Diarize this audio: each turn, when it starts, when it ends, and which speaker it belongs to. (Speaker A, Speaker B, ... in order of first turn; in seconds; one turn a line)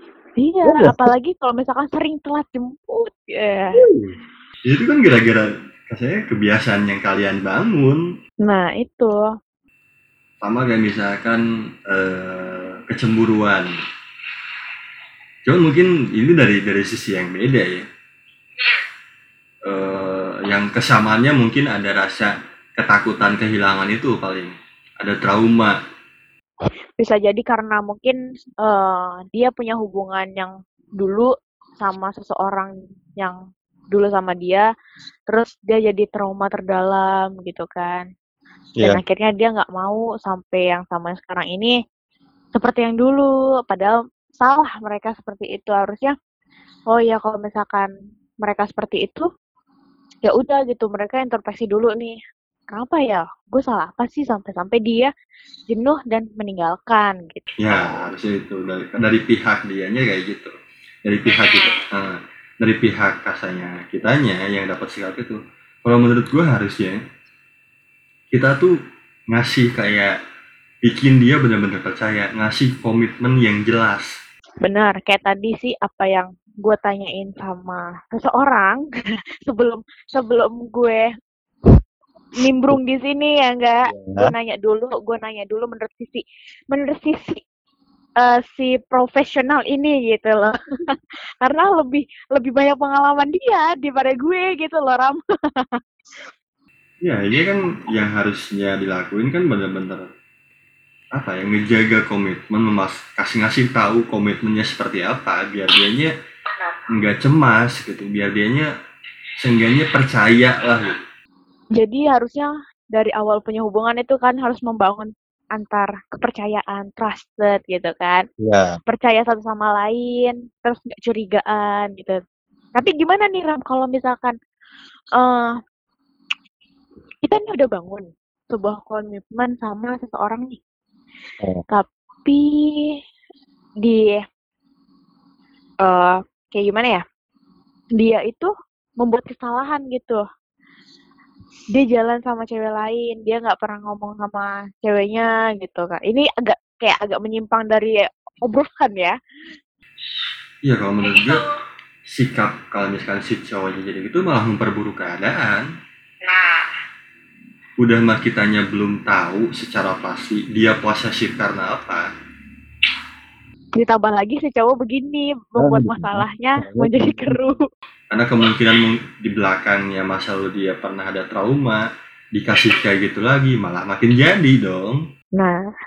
Speaker A: 0.4-3.8
Speaker B: 0.7-1.1
Speaker B: 3.8-4.1
Speaker C: 4.7-8.0
Speaker A: 8.4-9.2
Speaker C: 10.4-13.7
Speaker C: 15.4-17.9
Speaker C: 19.7-25.7
Speaker A: 27.0-33.4
Speaker A: 33.9-34.6
Speaker A: 35.3-38.1
Speaker A: 38.8-41.7
Speaker A: 42.5-46.1
Speaker A: 46.9-47.9
Speaker A: 48.4-49.3
Speaker A: 50.2-52.2
Speaker A: 52.7-55.1
Speaker A: 55.7-57.8
Speaker C: 57.6-60.5
Speaker C: 61.0-67.0
Speaker C: 68.3-68.7
Speaker C: 69.3-70.1
Speaker C: 70.8-74.1
Speaker A: 74.6-78.8
Speaker A: 79.5-81.1
Speaker A: 82.4-87.4
Speaker B: 83.9-84.3
Speaker A: 88.2-90.5
Speaker A: 91.4-95.8
Speaker C: 97.0-100.1
Speaker C: 101.1-106.1
Speaker C: 106.9-108.7
Speaker C: 109.4-111.0
Speaker A: 111.8-118.2
Speaker B: 118.4-118.8
Speaker A: 118.9-122.2
Speaker A: 122.7-124.3
Speaker A: 125.2-125.5
Speaker A: 127.2-130.6
Speaker A: 131.7-132.8
Speaker A: 133.8-134.2
Speaker A: 135.8-137.0
Speaker A: 138.0-140.2
Speaker A: 141.7-149.1
Speaker C: 150.6-151.5
Speaker C: 152.1-155.7
Speaker C: 157.8-162.1
Speaker A: 163.8-167.6
Speaker B: 165.6-167.4
Speaker C: 168.1-175.0